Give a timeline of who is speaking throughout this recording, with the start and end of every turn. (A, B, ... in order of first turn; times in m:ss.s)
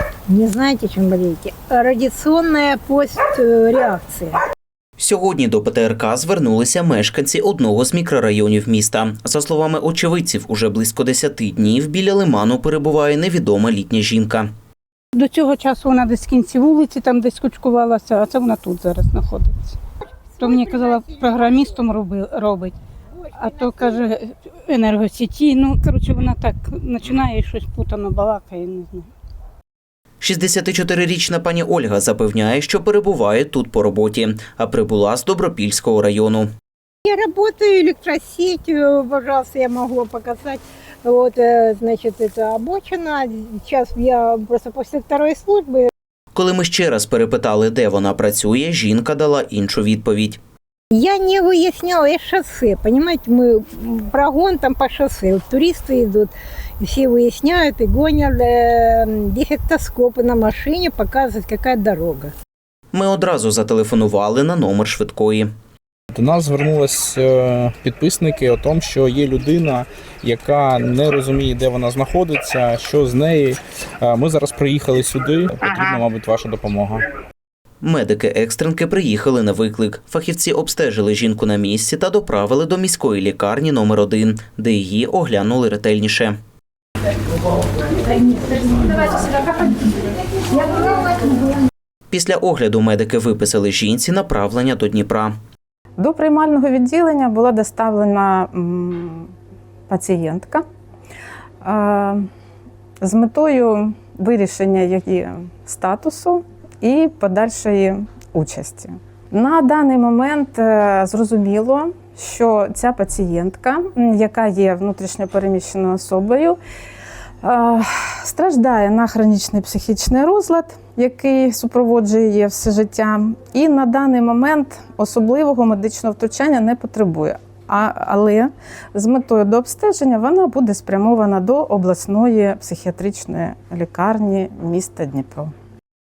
0:00.3-0:04.4 A
0:05.0-0:14.5 B
0:15.2-0:19.8 C
0:20.3-0:21.9 A
0:20.4-0:22.8 C
0:23.2-0:24.0 A
0:23.4-0:29.1 C
0:30.2-0:36.5 B
0:37.0-0:45.9 A
0:46.3-0:50.4 B
0:50.9-1:02.3 A
1:02.9-1:05.5 B
1:06.1-1:17.0 D
1:17.8-1:26.4 B
1:28.5-1:29.4 A
1:30.6-1:31.2 A
1:32.1-1:35.3 B
1:36.0-1:39.3 E
1:39.9-1:40.6 E
1:41.6-1:42.2 E
1:43.0-1:56.6 E
1:57.4-2:15.5 E